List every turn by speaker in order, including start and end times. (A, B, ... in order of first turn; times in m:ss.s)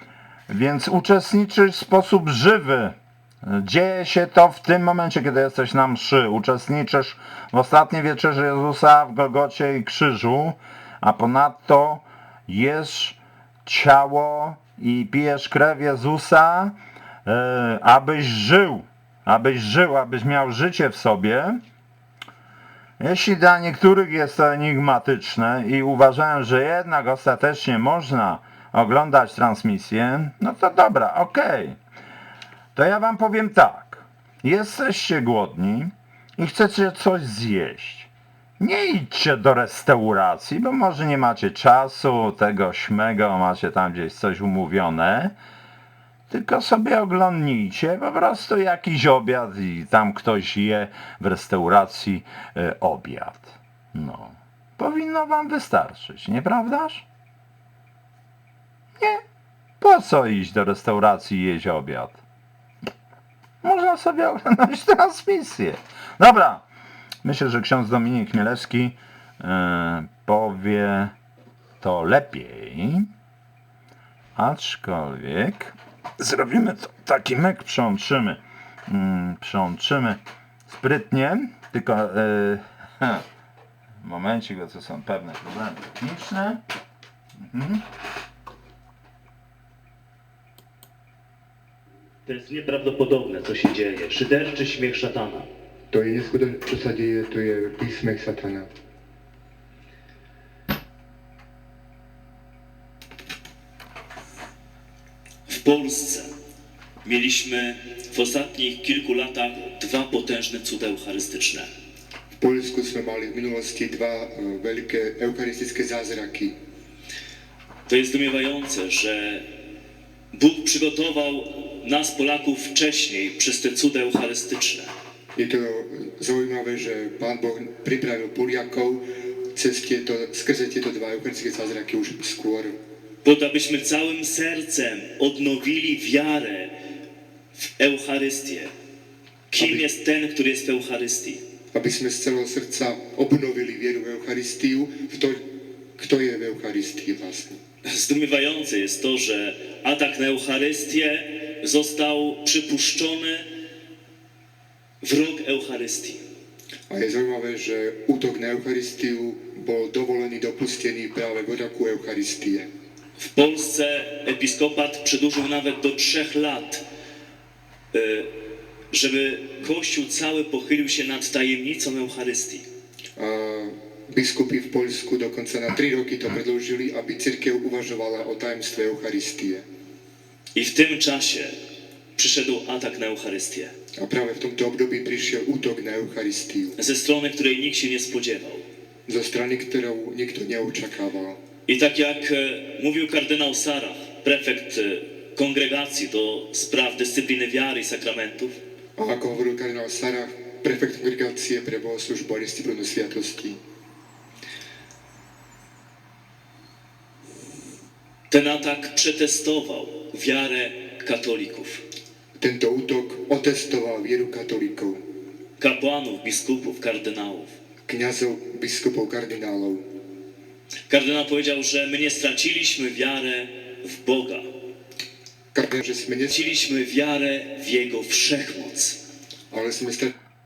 0:00.5-0:16.7 A
0:17.2-0:21.6 A
0:23.0-0:31.8 A
0:32.7-0:38.1 A
0:38.6-0:45.3 A
0:46.3-0:57.0 A
0:59.8-1:02.2 A
1:03.6-1:06.6 A
1:07.2-1:11.1 A
1:11.8-1:13.1 A
1:14.4-1:23.2 A
1:24.0-1:26.6 A
1:27.4-1:27.8 A
1:32.2-1:35.5 B
1:35.9-1:38.7 C
1:45.5-1:46.3 B
1:47.0-1:51.7 B
1:52.4-1:56.5 C
1:57.9-1:59.5 B
2:00.3-2:04.9 B
2:05.4-2:12.8 C
2:13.2-2:16.8 B
2:17.6-2:18.7 B
2:19.5-2:21.4 B
2:19.6-2:19.8 C
2:21.7-2:25.4 C
2:26.0-2:27.6 C
2:27.9-2:33.5 B
2:35.0-2:36.2 B
2:36.9-2:42.7 C
2:43.2-2:46.8 B
2:47.9-2:52.6 B
2:53.2-2:59.6 C
3:00.5-3:01.5 B
3:02.2-3:03.7 B
3:04.0-3:06.8 C
3:06.8-3:08.6 B
3:09.0-3:11.4 C
3:11.7-3:18.6 B
3:19.0-3:23.6 C
3:28.3-3:31.8 B
3:32.4-3:35.0 C
3:35.6-3:37.5 B
3:37.9-3:39.8 C
3:40.9-3:44.5 B
3:45.5-3:46.4 C
3:46.3-3:49.0 B
3:49.5-3:50.1 C